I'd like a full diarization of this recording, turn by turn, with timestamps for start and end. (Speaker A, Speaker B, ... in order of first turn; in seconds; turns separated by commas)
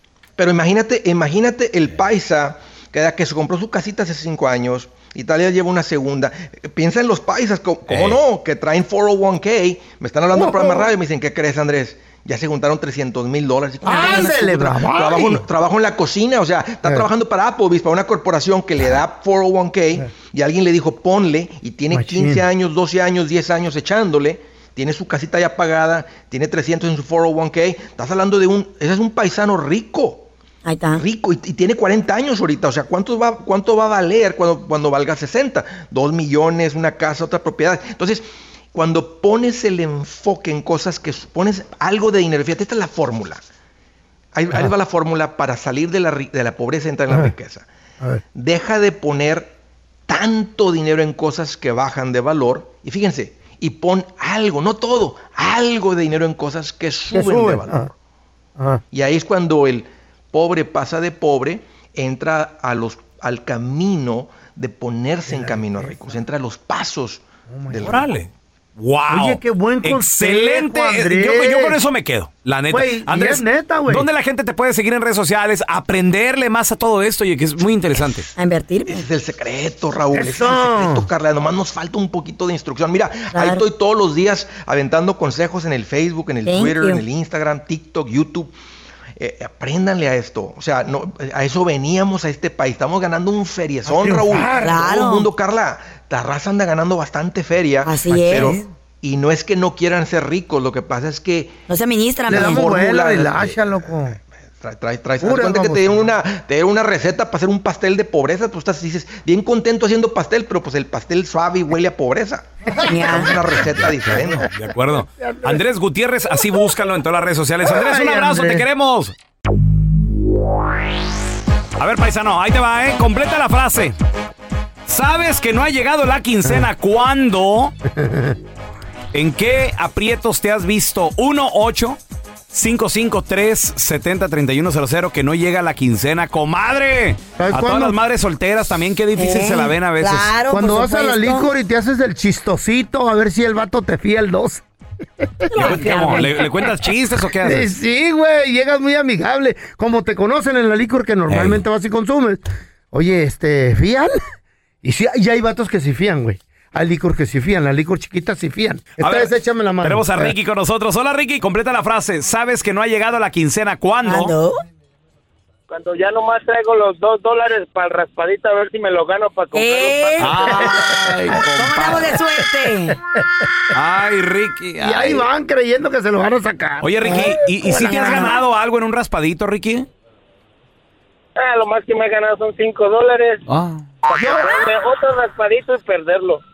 Speaker A: 0.4-30.3, Speaker B: 7.9-8.2, Speaker C: 10.3-10.9, Speaker C: 13.8-15.4, Speaker C: 21.9-22.4, Speaker D: 30.6-31.0, Speaker A: 31.0-43.4, Speaker A: 44.3-47.7, Speaker A: 48.3-49.5, Speaker A: 50.1-57.9, Speaker C: 57.1-57.9, Speaker A: 58.9-68.1, Speaker C: 65.3-66.1, Speaker C: 67.5-68.0, Speaker B: 67.8-78.3, Speaker C: 69.1-71.8, Speaker C: 72.7-74.1, Speaker D: 78.4-79.1, Speaker A: 78.9-88.5, Speaker C: 80.1-81.1, Speaker D: 83.3-83.7, Speaker D: 86.5-87.0, Speaker A: 89.2-101.6, Speaker C: 93.9-94.8, Speaker D: 94.6-95.3, Speaker D: 97.8-98.6, Speaker D: 101.7-102.8, Speaker A: 102.3-104.0, Speaker C: 102.3-104.2, Speaker A: 104.6-114.5, Speaker C: 105.2-106.1, Speaker D: 112.9-113.4, Speaker B: 113.8-119.1, Speaker C: 117.6-118.6, Speaker B: 121.8-124.0, Speaker B: 124.9-127.7, Speaker C: 127.9-128.4, Speaker B: 129.1-132.0, Speaker B: 132.5-140.3, Speaker C: 137.4-138.0, Speaker D: 139.2-141.5, Speaker C: 140.5-144.6, Speaker C: 145.5-146.3, Speaker D: 145.5-146.7, Speaker B: 145.6-147.7, Speaker C: 147.4-154.2, Speaker B: 151.3-151.6, Speaker C: 154.8-160.3, Speaker B: 159.0-164.3, Speaker D: 164.0-164.6, Speaker E: 165.7-170.8, Speaker D: 169.5-170.5, Speaker B: 170.2-172.2, Speaker D: 171.5-173.0, Speaker B: 173.7-175.3, Speaker C: 174.8-178.4, Speaker B: 176.8-179.9, Speaker D: 177.8-178.4, Speaker E: 181.4-183.4, Speaker B: 183.5-183.8, Speaker E: 184.1-186.4, Speaker C: 184.2-184.5